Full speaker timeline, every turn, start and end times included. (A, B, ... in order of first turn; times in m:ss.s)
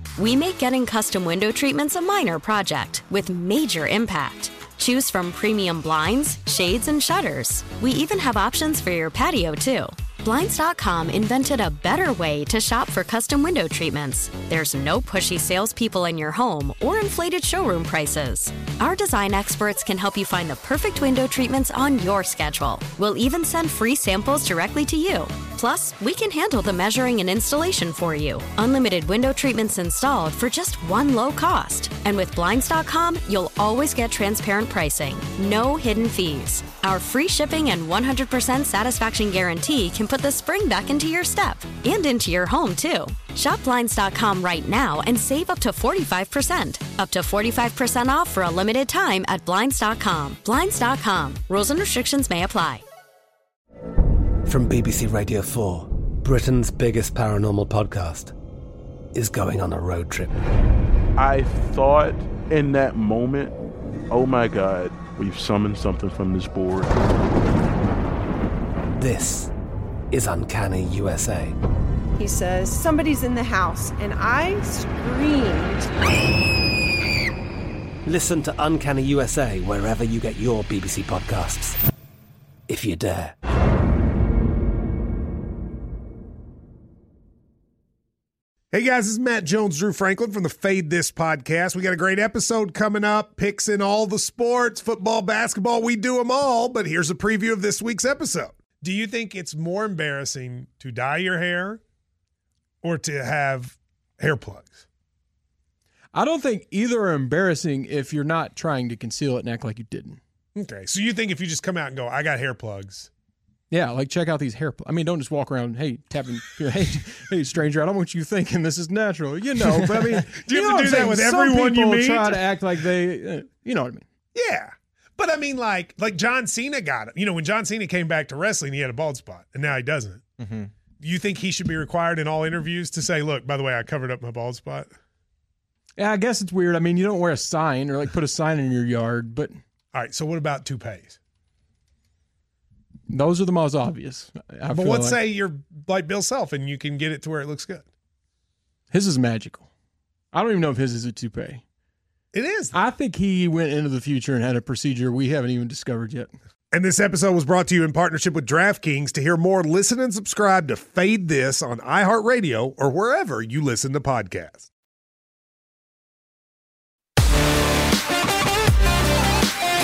0:00.2-0:52.8 A
0:54.5-0:58.3 B
0:59.1-1:00.3 B
1:01.2-1:03.5 C
1:04.1-1:06.9 C
1:08.9-1:09.5 B
1:10.1-1:11.6 B
1:12.2-1:15.9 D
1:18.0-1:21.8 B
1:22.7-1:23.3 B
1:28.7-1:41.8 E
1:42.8-1:44.8 E
1:46.1-1:50.2 F
1:50.6-1:53.1 E
1:53.7-2:04.0 F
1:59.6-2:02.8 E
2:04.3-2:10.3 E
2:11.0-2:14.9 E
2:16.0-2:19.6 F
2:19.9-2:21.2 E
2:23.1-2:25.2 F
2:24.7-2:27.8 E
2:28.9-2:29.7 F
2:30.3-2:31.6 F
2:32.3-2:32.7 E
2:32.7-2:36.3 F
2:36.7-2:44.7 E